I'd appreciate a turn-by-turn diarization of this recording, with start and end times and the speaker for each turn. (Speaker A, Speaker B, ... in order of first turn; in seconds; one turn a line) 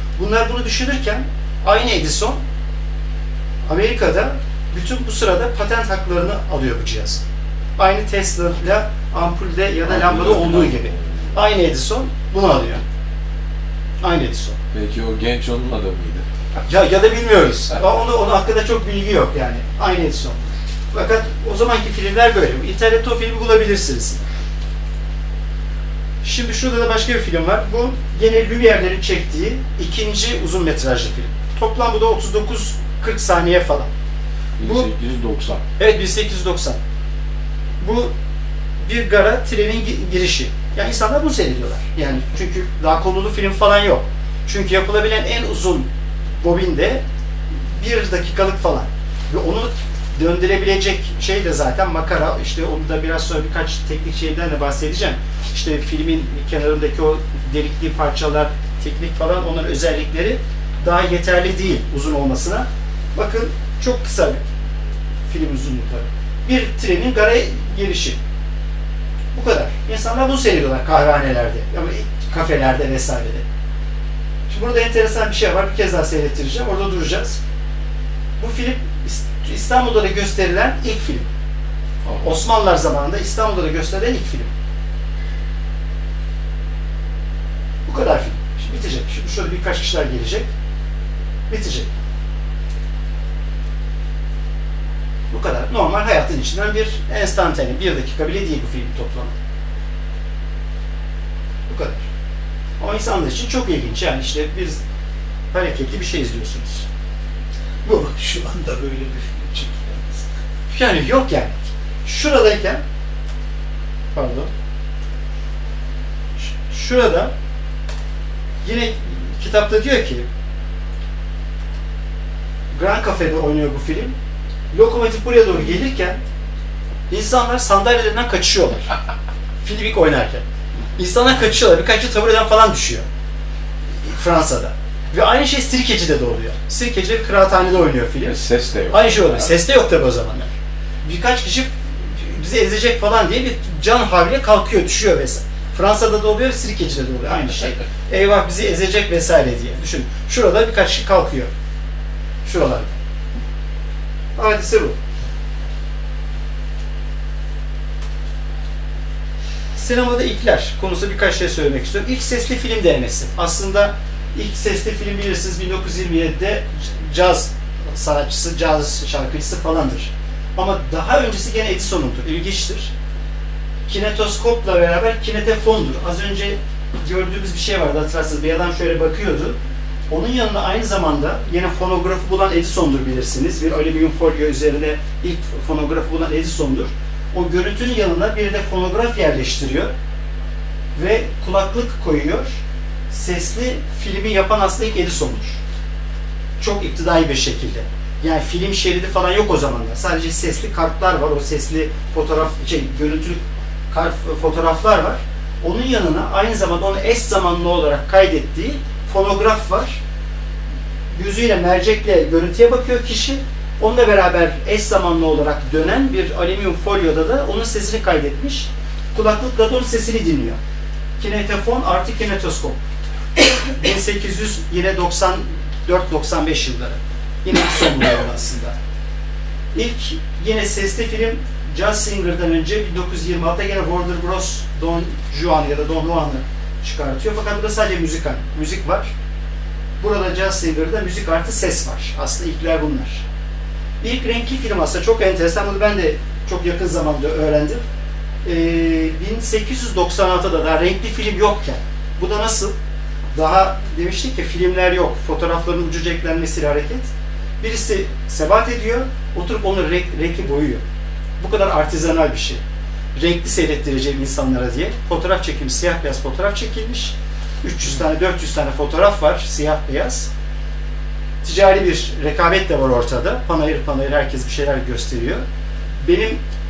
Speaker A: 0.2-2.4
Speaker A: 3.7-7.2
Speaker A: 7.8-12.8
Speaker B: 9.9-11.0
Speaker A: 14.0-14.6
Speaker B: 14.7-16.2
Speaker A: 16.5-20.4
Speaker A: 20.9-24.2
Speaker A: 26.2-33.9
Speaker B: 34.6-35.6
Speaker A: 34.6-34.9
Speaker A: 35.8-36.8
Speaker A: 37.8-38.1
Speaker A: 38.8-45.9
Speaker A: 46.4-47.0
Speaker A: 47.8-64.4
Speaker A: 65.3-68.2
Speaker A: 69.3-73.4
Speaker A: 74.5-77.4
Speaker A: 78.4-81.3
Speaker A: 82.2-84.5
Speaker A: 87.8-90.5
Speaker A: 91.5-91.9
Speaker A: 95.3-99.3
Speaker A: 101.7-102.1
Speaker A: 102.8-104.8
Speaker A: 105.5-106.8
Speaker C: 107.8-110.3
Speaker A: 110.7-112.8
Speaker A: 114.1-114.5
Speaker A: 116.4-117.3
Speaker A: 118.6-120.3
Speaker A: 122.7-124.1
Speaker A: 124.7-126.2
Speaker A: 127.1-128.9
Speaker A: 129.6-130.4
Speaker A: 131.0-133.0
Speaker A: 134.0-140.5
Speaker B: 138.2-139.5
Speaker A: 141.0-151.5
Speaker A: 152.4-153.0
Speaker A: 154.3-155.0
Speaker A: 159.7-172.9
Speaker A: 173.9-179.6
Speaker A: 180.1-189.9
Speaker A: 190.9-195.6
Speaker A: 196.6-203.4
Speaker A: 203.9-210.0
Speaker A: 211.1-220.6
Speaker A: 221.2-222.8
Speaker A: 223.7-228.8
Speaker A: 229.7-239.1
Speaker A: 240.0-243.2
Speaker A: 244.0-247.8
Speaker A: 248.4-252.7
Speaker A: 253.3-260.8
Speaker A: 261.4-262.6
Speaker A: 263.1-270.3
Speaker A: 271.4-275.4
Speaker A: 276.0-276.4